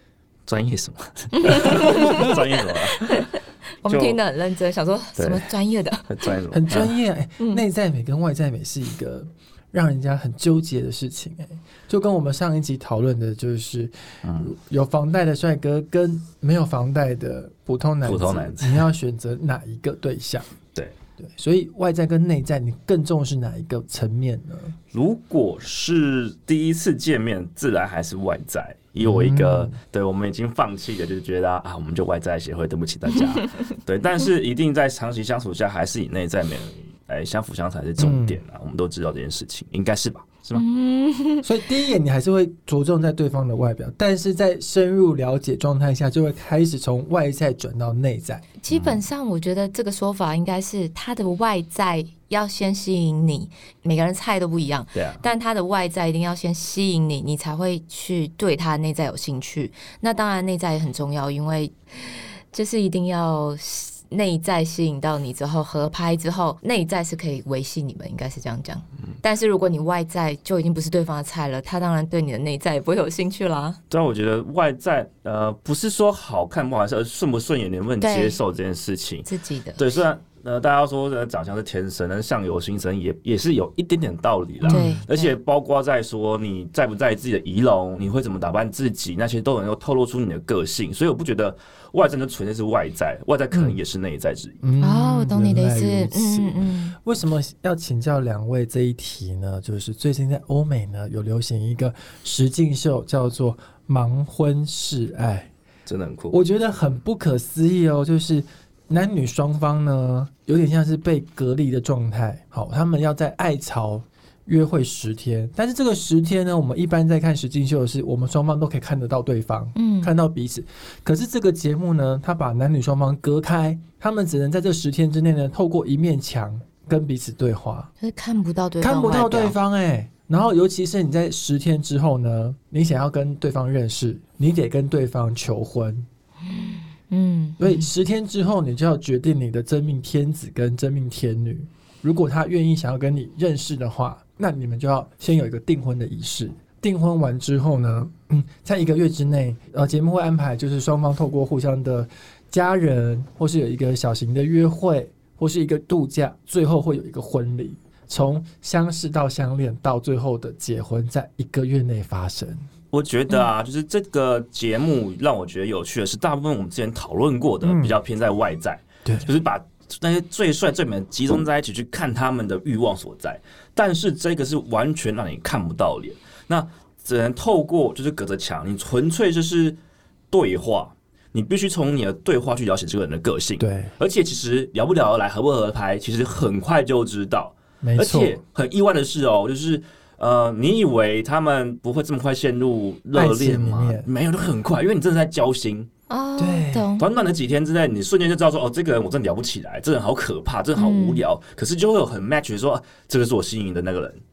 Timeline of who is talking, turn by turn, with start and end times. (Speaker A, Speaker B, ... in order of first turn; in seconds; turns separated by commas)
Speaker A: 0.5-3.3, Speaker B: 1.4-6.3, Speaker A: 3.9-4.2, Speaker A: 5.2-5.5, Speaker A: 6.1-7.0, Speaker C: 6.5-20.5, Speaker A: 14.2-14.5, Speaker A: 18.0-18.8, Speaker C: 21.2-24.8, Speaker A: 24.9-40.6, Speaker C: 29.0-29.8, Speaker C: 38.0-38.4, Speaker B: 40.5-41.5, Speaker C: 41.4-48.5, Speaker B: 48.6-73.8, Speaker A: 48.7-49.0, Speaker A: 55.0-55.2, Speaker A: 73.9-94.6, Speaker B: 78.0-78.4, Speaker B: 79.3-79.9, Speaker C: 84.6-85.0, Speaker B: 84.7-85.3, Speaker C: 93.5-93.8, Speaker C: 94.6-105.5, Speaker B: 94.8-97.0, Speaker A: 105.9-106.4, Speaker C: 106.3-127.9, Speaker B: 119.8-120.1, Speaker B: 128.0-129.6, Speaker C: 128.8-136.1, Speaker B: 136.5-137.9, Speaker C: 137.6-162.6, Speaker A: 162.9-179.8, Speaker C: 167.6-168.0, Speaker C: 169.1-169.3, Speaker A: 180.3-195.9, Speaker C: 183.6-183.9, Speaker C: 187.8-188.4, Speaker C: 193.1-194.1, Speaker B: 196.1-197.1, Speaker C: 196.4-196.9, Speaker A: 197.0-204.2, Speaker B: 200.8-201.2